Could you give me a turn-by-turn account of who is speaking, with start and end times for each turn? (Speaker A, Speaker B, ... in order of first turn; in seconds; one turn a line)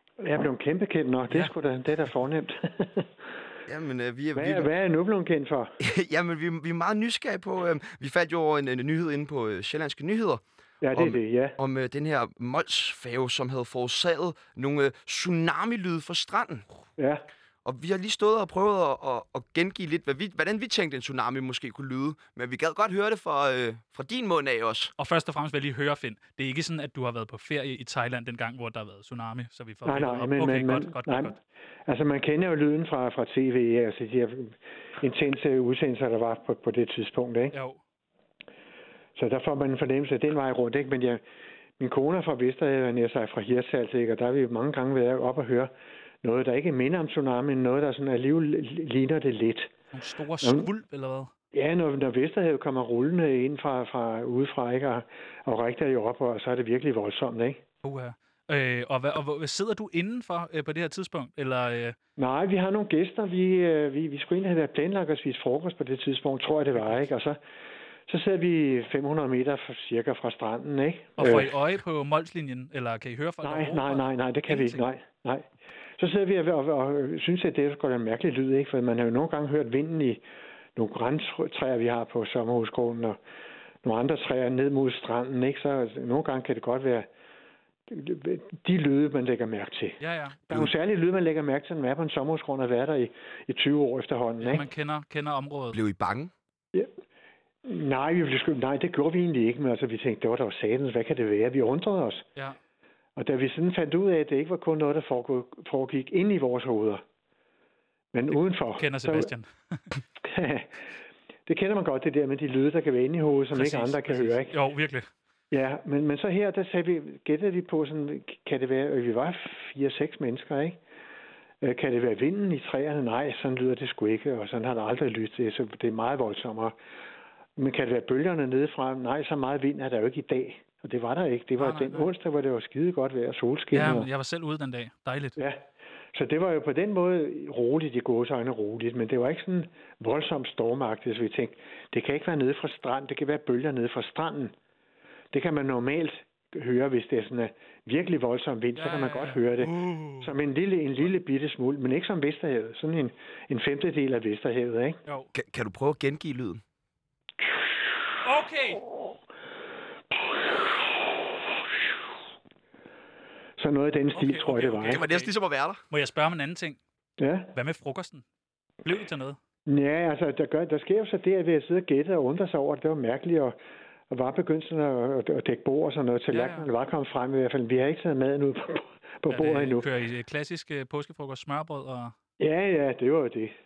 Speaker A: 0.2-3.1
Speaker B: 3.7-4.7
Speaker A: 4.4-5.8
Speaker B: 5.8-16.7
Speaker A: 10.8-11.6
Speaker A: 17.0-17.3
Speaker B: 17.6-24.9
Speaker C: 25.0-31.4
Speaker A: 29.9-37.5
Speaker C: 37.5-37.8
Speaker A: 39.2-41.2
Speaker A: 41.8-45.7
Speaker A: 46.2-49.7
Speaker C: 49.9-51.3
Speaker A: 50.4-50.7
Speaker A: 51.5-57.6
Speaker C: 57.8-62.0
Speaker A: 62.2-67.4
Speaker C: 66.8-67.1
Speaker A: 68.1-71.5
Speaker C: 71.2-74.8
Speaker A: 73.4-80.2
Speaker A: 80.8-83.2
Speaker A: 83.8-87.1
Speaker A: 87.9-90.0
Speaker C: 90.0-90.4
Speaker A: 90.5-94.7
Speaker C: 94.4-95.8
Speaker B: 95.7-96.3
Speaker A: 97.7-102.3
Speaker A: 103.2-107.0
Speaker A: 108.1-109.3
Speaker C: 108.3-110.0
Speaker A: 110.2-110.8
Speaker A: 111.5-114.5
Speaker C: 113.5-115.1
Speaker A: 115.5-120.8
Speaker A: 121.6-126.8
Speaker A: 127.6-134.1
Speaker C: 131.6-132.1
Speaker C: 133.7-135.4
Speaker A: 135.4-144.5
Speaker A: 145.3-155.0
Speaker C: 148.8-150.3
Speaker B: 155.3-156.6
Speaker C: 158.2-158.8
Speaker A: 160.1-161.3
Speaker A: 163.6-165.0
Speaker C: 164.1-165.3
Speaker B: 164.9-165.8
Speaker C: 165.9-166.8
Speaker A: 167.2-167.5
Speaker C: 167.6-168.2
Speaker C: 168.8-169.4
Speaker A: 169.7-173.6
Speaker A: 174.1-179.9
Speaker C: 176.3-176.7
Speaker C: 179.3-182.1
Speaker A: 182.4-183.5